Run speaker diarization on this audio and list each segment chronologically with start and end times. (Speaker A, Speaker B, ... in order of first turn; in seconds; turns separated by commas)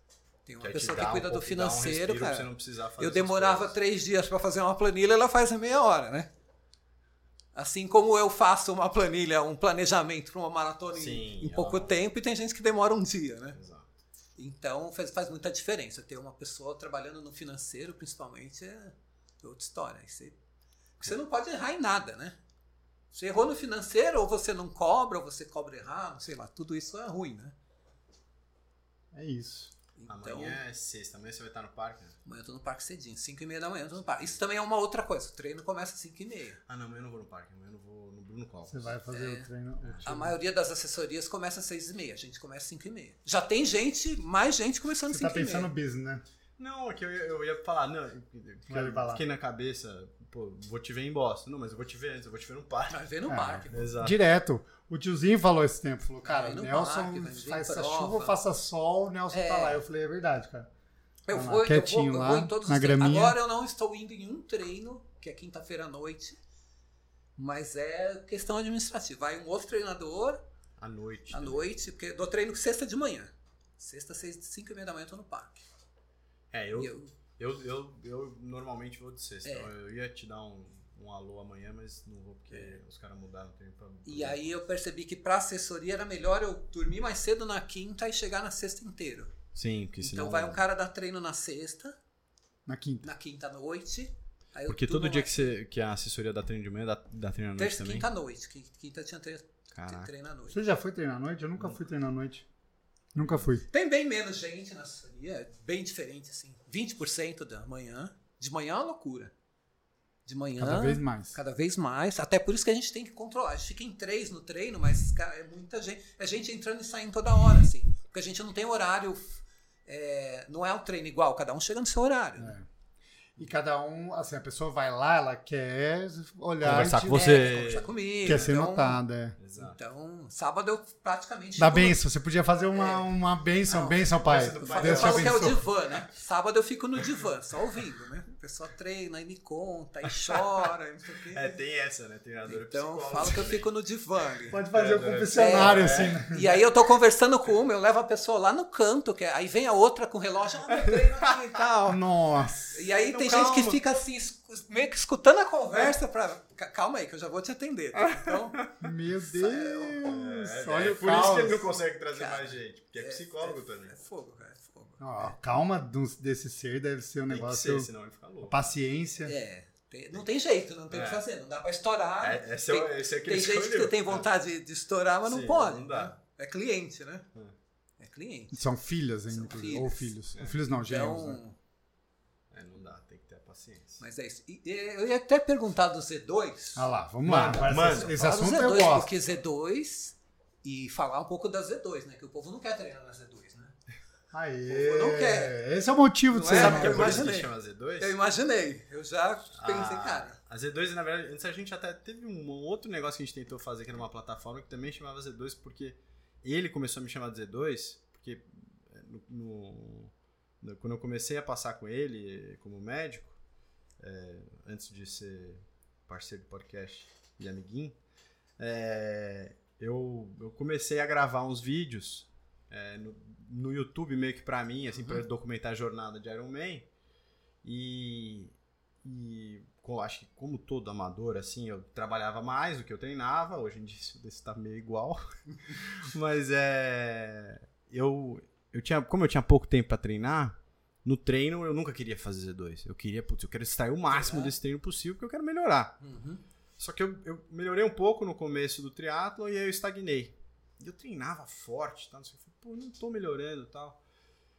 Speaker A: 0.5-6.3, Speaker B: 0.6-3.8, Speaker A: 7.5-13.6, Speaker B: 10.9-12.0, Speaker B: 13.6-13.9, Speaker A: 14.4-20.4, Speaker A: 21.0-22.4, Speaker A: 23.1-27.5, Speaker C: 29.1-29.7, Speaker A: 30.0-30.6, Speaker B: 30.1-32.2, Speaker A: 32.2-36.6, Speaker B: 36.7-39.0, Speaker C: 38.7-40.4, Speaker A: 39.1-39.5, Speaker A: 40.0-45.7, Speaker C: 45.1-46.2, Speaker B: 46.6-53.0, Speaker C: 48.7-49.2, Speaker A: 52.9-54.0, Speaker C: 53.3-60.7, Speaker B: 53.7-54.2, Speaker A: 56.2-58.4, Speaker A: 59.3-59.8, Speaker A: 61.3-66.4, Speaker C: 61.3-63.4, Speaker A: 67.4-70.4, Speaker B: 70.8-71.7, Speaker A: 71.3-75.6, Speaker B: 76.5-84.5, Speaker A: 76.7-77.1, Speaker A: 79.4-79.7, Speaker A: 84.0-89.3, Speaker B: 89.5-90.6, Speaker A: 90.0-92.0, Speaker C: 92.7-93.1, Speaker A: 93.0-95.5, Speaker B: 94.7-98.1, Speaker A: 97.6-100.6, Speaker B: 99.7-100.1, Speaker C: 100.5-102.5, Speaker C: 103.1-103.7, Speaker A: 103.7-109.3, Speaker A: 110.3-122.6, Speaker C: 110.6-111.4, Speaker C: 122.4-122.7, Speaker C: 123.4-127.4, Speaker B: 126.6-128.6, Speaker A: 127.1-129.0, Speaker C: 128.2-129.4, Speaker B: 129.4-129.8, Speaker A: 129.6-132.0, Speaker C: 131.6-135.6, Speaker A: 132.7-133.1, Speaker A: 133.7-141.5, Speaker B: 134.2-135.5, Speaker B: 141.3-143.7, Speaker A: 142.5-144.6, Speaker C: 144.5-146.6, Speaker B: 144.7-146.2, Speaker A: 145.3-152.0, Speaker C: 151.9-152.8, Speaker A: 152.7-158.7, Speaker B: 153.1-153.8, Speaker B: 158.1-158.7, Speaker C: 158.8-161.6, Speaker A: 159.3-160.1, Speaker B: 160.0-163.9, Speaker A: 162.1-165.3, Speaker C: 165.0-167.9, Speaker B: 167.3-168.6, Speaker C: 168.4-169.3, Speaker A: 169.2-177.3, Speaker B: 170.9-171.2, Speaker B: 172.2-174.3, Speaker B: 175.3-176.2, Speaker A: 178.0-178.6, Speaker C: 178.5-181.4, Speaker A: 179.3-180.1, Speaker A: 180.8-181.6, Speaker B: 182.5-184.0, Speaker A: 184.0-186.9, Speaker C: 186.8-189.1, Speaker B: 187.2-188.1, Speaker A: 187.5-193.8, Speaker C: 194.3-197.2, Speaker A: 194.7-195.6, Speaker A: 196.3-200.4, Speaker B: 196.4-198.2, Speaker B: 199.5-213.4, Speaker B: 214.0-218.0, Speaker B: 218.6-226.9, Speaker A: 224.9-225.2, Speaker B: 227.6-228.5, Speaker B: 229.0-246.0, Speaker A: 244.1-244.5, Speaker A: 246.0-246.4, Speaker B: 246.8-254.0